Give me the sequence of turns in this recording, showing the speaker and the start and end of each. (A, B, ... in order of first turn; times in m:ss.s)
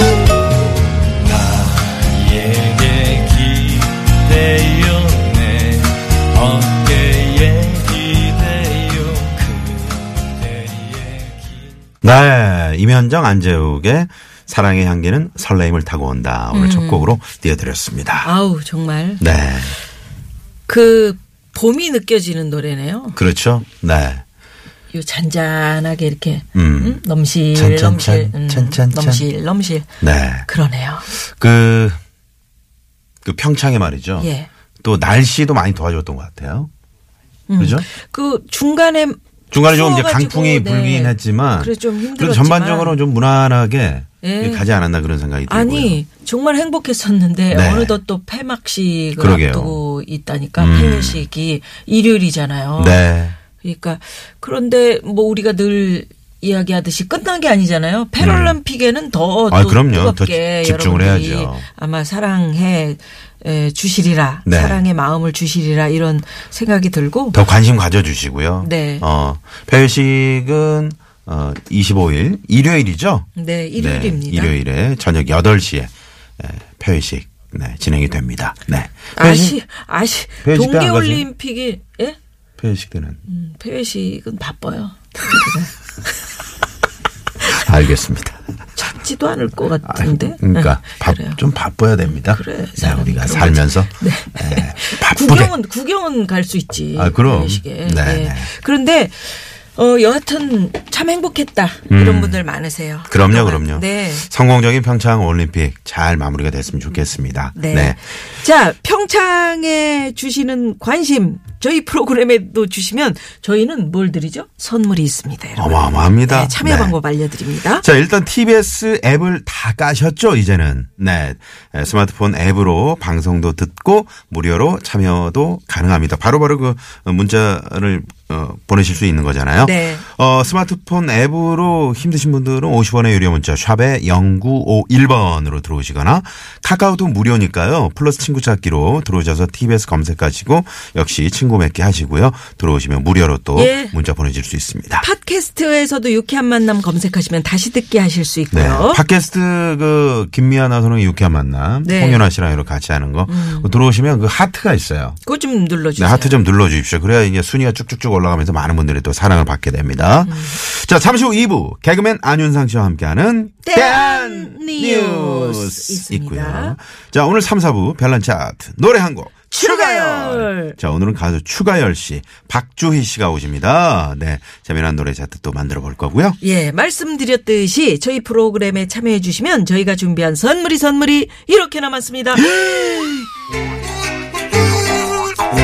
0:01.2-0:11.6 A
0:12.0-0:18.3 B
0:16.5-0:17.1 C
0:18.2-0:19.2 C
0:19.2-0:19.8 B
0:20.7-0:23.2 C
0:23.1-0:24.2 B
0:24.9-0:29.9 C
0:26.5-0:27.0 B
0:27.5-0:29.3 B
0:30.0-0:30.5 B
0:30.4-0:31.1 C
0:31.3-0:32.0 B
0:33.2-0:34.3 B
0:34.2-0:34.5 C
0:34.8-0:36.7 B
0:37.5-0:43.0 C
0:37.6-0:37.9 B
0:39.5-0:46.0 B
0:44.2-0:44.6 C
0:45.5-0:53.0 C
0:47.5-0:48.0 B
0:49.2-0:49.8 B
0:50.6-0:51.2 B
0:52.8-0:53.4 B
0:53.6-1:07.4 C
0:58.2-0:58.6 B
0:59.5-1:01.6 B
1:04.4-1:04.8 B
1:07.3-1:19.6 B
1:08.6-1:09.0 C
1:13.4-1:14.5 C
1:19.1-1:22.2 C
1:20.4-1:21.3 B
1:22.6-1:23.2 B
1:23.3-1:26.1 C
1:27.5-1:28.4 B
1:28.8-1:31.4 C
1:29.8-1:35.5 B
1:32.0-1:44.3 C
1:37.0-1:38.5 B
1:41.9-1:42.4 B
1:43.1-1:48.0 B
1:47.5-1:57.8 C
1:55.6-1:57.0 B
1:57.7-2:25.0 B
2:09.6-2:10.0 C
2:23.5-2:23.9 C
2:25.0-2:29.0 C
2:28.5-2:35.2 B
2:31.8-2:32.2 C
2:33.3-2:33.7 C
2:35.2-2:36.4 C
2:36.0-2:56.4 B
2:40.2-2:40.6 C
2:43.6-2:46.8 C
2:49.5-2:50.8 C
2:56.4-3:02.6 C